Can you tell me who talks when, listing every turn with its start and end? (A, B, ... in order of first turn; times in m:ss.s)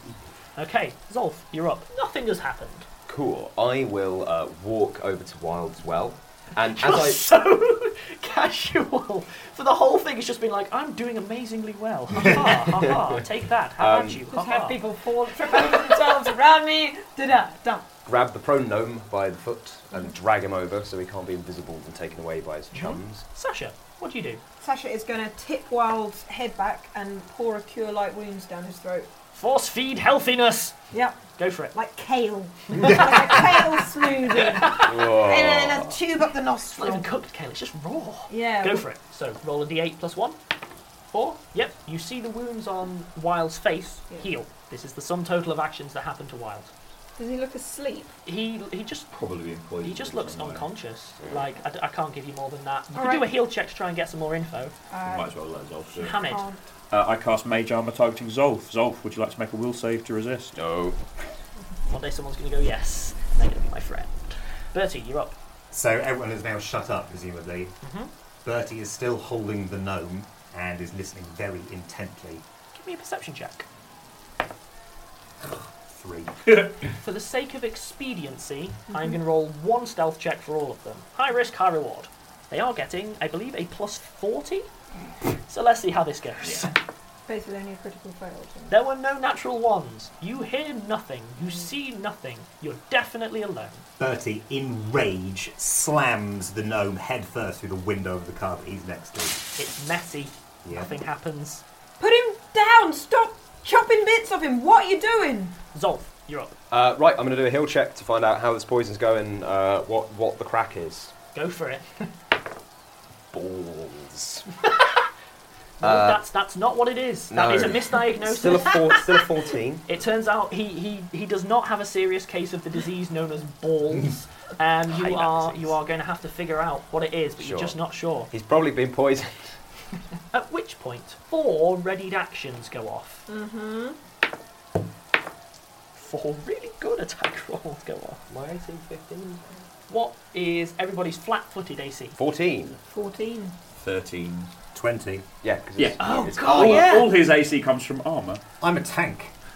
0:00.6-0:02.9 A
0:03.1-0:07.2 B
0:06.8-0:14.8 A
0:12.6-0:13.2 B
0:13.8-0:14.3 B
0:14.3-0:17.9 C
0:15.4-0:16.3 A
0:18.1-0:23.2 B
0:23.3-0:24.4 A
0:24.6-0:29.1 C
0:29.3-0:30.8 A
0:30.9-0:37.1 C
0:31.4-0:31.8 A
0:32.8-0:33.5 A
0:34.4-0:34.8 A
0:34.6-0:36.0 B
0:36.7-0:40.4 A
0:38.3-0:38.9 C
0:41.1-0:41.4 C
0:41.5-0:46.7 A
0:47.2-0:48.1 C
0:48.2-0:49.1 A
0:49.1-0:50.7 D
0:49.8-0:54.8 A
0:52.9-0:53.3 C
0:54.9-0:55.3 C
0:55.0-0:56.2 D
0:56.0-0:56.5 A
0:56.0-0:56.6 C
0:56.9-1:00.6 D
1:00.5-1:01.0 B
1:01.9-1:05.4 A
1:05.7-1:07.8 E
1:07.8-1:08.1 A
1:08.4-1:12.4 E
1:12.7-1:13.7 A
1:15.4-1:16.7 E
1:17.0-1:24.7 A
1:18.9-1:19.2 C
1:25.5-1:26.7 A
1:26.4-1:26.7 D
1:27.3-1:28.8 C
1:28.7-1:33.8 A
1:31.4-1:31.7 C
1:34.0-1:39.4 E
1:39.6-1:41.6 A
1:40.6-1:40.9 E
1:42.0-1:45.6 C
1:45.7-1:46.5 A
1:46.7-1:51.1 B
1:51.3-1:52.1 A
1:53.3-1:54.4 B
1:55.8-1:56.2 B
1:55.8-1:59.1 A
1:57.3-1:59.8 B
1:59.9-2:08.3 A
2:04.9-2:05.8 B
2:07.4-2:09.6 B
2:10.3-2:13.3 A
2:13.3-2:14.0 C
2:16.0-2:18.2 A
2:18.3-2:19.5 B
2:19.9-2:22.2 A
2:22.2-2:22.8 B
2:22.9-2:23.6 C
2:23.8-2:24.5 D
2:24.7-2:25.3 E
2:25.4-2:27.0 B
2:25.8-2:28.4 D
2:26.0-2:27.1 A
2:28.6-2:29.3 E